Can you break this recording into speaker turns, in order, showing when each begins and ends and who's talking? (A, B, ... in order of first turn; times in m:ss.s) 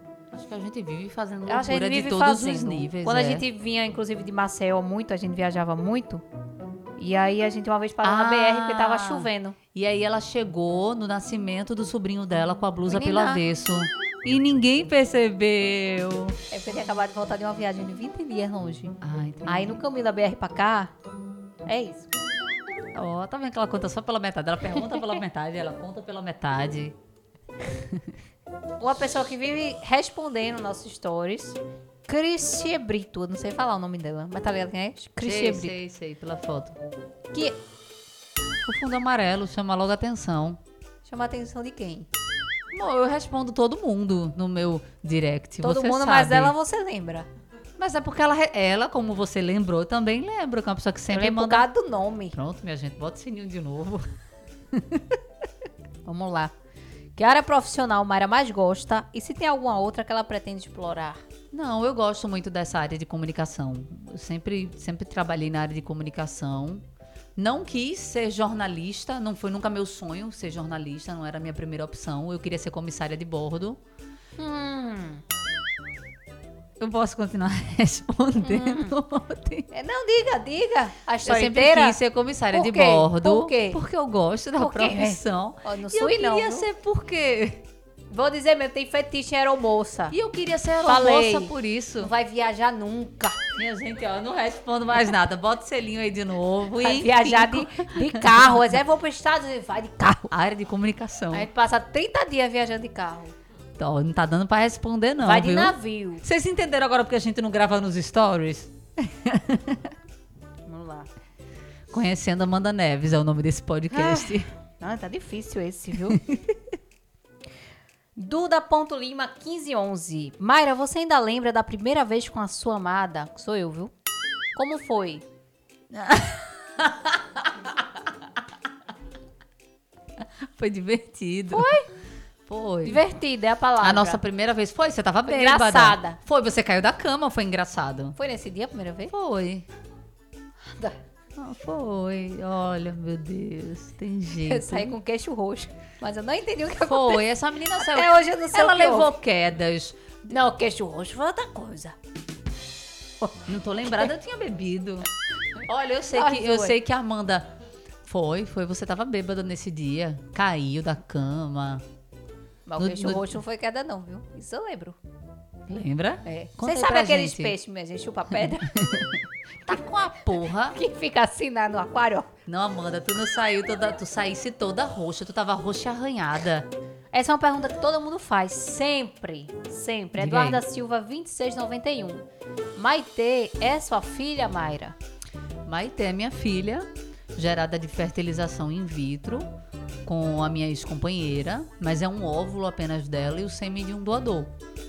0:00.3-0:03.4 A
0:01.5-0:06.2 B
0:07.0-0:09.6 B
0:08.0-0:16.4 A
0:12.9-0:13.4 B
0:16.5-0:20.9 B
0:19.0-0:19.8 A
0:21.7-0:22.1 B
0:22.9-0:27.0 A
0:27.8-0:28.1 A
0:28.8-0:35.8 B
0:35.2-0:36.8 A
0:38.6-0:40.6 A
0:41.0-0:42.1 B
0:42.7-0:46.5 A
0:45.6-0:47.3 B
0:47.8-0:51.7 A
0:51.1-0:52.4 B
0:52.3-0:54.0 A
0:54.7-0:55.2 A
0:56.0-0:56.5 B
0:57.2-1:01.2 B
1:01.5-1:06.8 A
1:07.4-1:13.8 A
1:14.4-1:15.2 B
1:16.8-1:19.7 A
1:18.4-1:19.0 B
1:19.7-1:22.0 B
1:21.2-1:27.6 A
1:22.5-1:23.8 B
1:24.6-1:26.7 B
1:28.1-1:30.2 B
1:30.1-1:32.1 A
1:30.8-1:33.4 B
1:33.6-1:38.6 A
1:36.8-1:40.3 B
1:40.3-1:41.5 A
1:41.3-1:43.3 B
1:43.8-1:49.9 A
1:45.2-1:46.2 B
1:50.7-1:51.1 B
1:51.9-1:54.5 A
1:53.9-1:56.2 B
1:56.1-1:56.6 A
1:58.2-2:03.9 B
2:04.6-2:05.2 B
2:05.9-2:07.9 A
2:10.2-2:11.7 A
2:11.5-2:11.9 B
2:12.5-2:13.0 A
2:12.8-2:14.2 B
2:13.8-2:18.2 A
2:15.2-2:16.2 B
2:18.2-2:19.1 B
2:19.1-2:19.7 A
2:20.6-2:21.0 B
2:21.4-2:24.9 A
2:24.4-2:29.1 B
2:26.8-2:30.0 A
2:30.3-2:32.0 B
2:33.5-2:35.1 A
2:35.6-2:37.5 A
2:36.1-2:36.8 B
2:38.0-2:41.8 A
2:42.7-2:45.0 B
2:42.8-2:43.3 A
2:45.7-2:47.6 A
2:46.2-2:49.0 B
2:48.4-2:50.8 A
2:50.7-2:52.3 B
2:52.5-2:56.7 A
2:57.1-3:02.2 B
3:00.2-3:00.6 A
3:02.8-3:05.0 B
3:05.7-3:09.5 A
3:10.0-3:14.6 A